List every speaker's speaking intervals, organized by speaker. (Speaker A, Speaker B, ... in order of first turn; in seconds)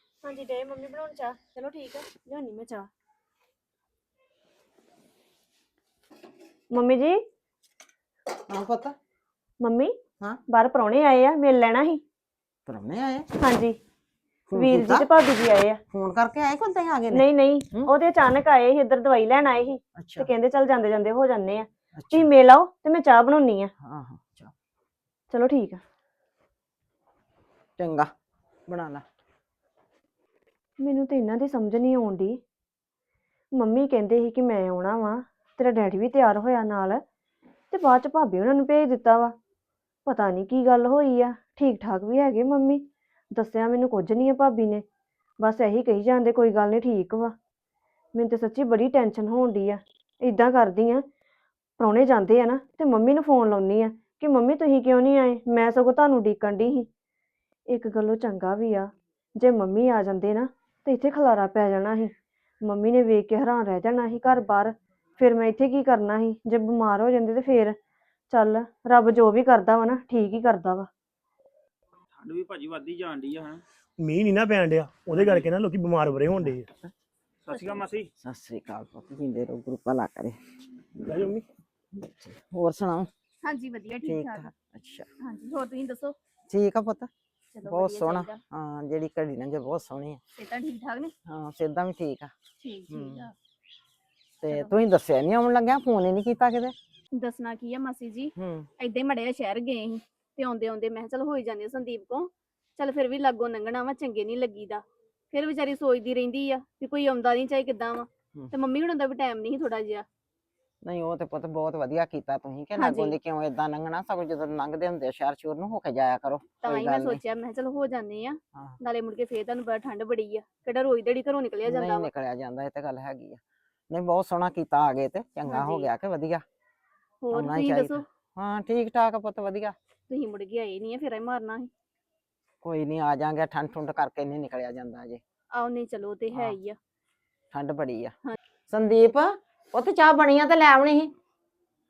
Speaker A: 0.2-2.9, 6.7-7.2, 9.6-9.9, 10.5-12.0, 13.4-13.8, 14.6-15.8, 17.1-23.7, 25.3-25.8, 30.8-32.4, 33.5-37.0, 37.7-39.3, 40.1-44.8, 45.4-47.3, 48.1-51.0, 51.8-56.9, 57.7-67.8, 68.3-70.9
Speaker B: 8.5-8.9, 12.7-13.3, 14.5-15.1, 15.9-17.9, 20.0-20.3, 21.9-22.3, 23.8-24.5, 27.8-28.1, 28.7-29.0, 76.4-76.9, 78.2-80.4, 82.0-83.1, 84.0-85.1, 86.5-87.1, 87.6-90.2, 91.3-92.3, 92.9-93.3, 94.4-96.8, 98.4-98.7, 110.8-117.2, 121.7-126.4, 127.3-129.8, 132.6-135.2, 136.3-136.6, 137.5-138.2, 138.7-141.1
Speaker C: 72.2-73.6, 77.5-78.1
Speaker D: 74.0-76.7, 81.0-81.4
Speaker E: 77.5-77.8, 83.4-84.5, 85.2-86.2, 87.5-88.4, 90.4-91.1, 92.6-93.3, 97.1-110.0, 112.8-113.2, 116.6-122.1, 125.5-125.9, 127.2-128.0, 130.1-131.7, 135.5-136.8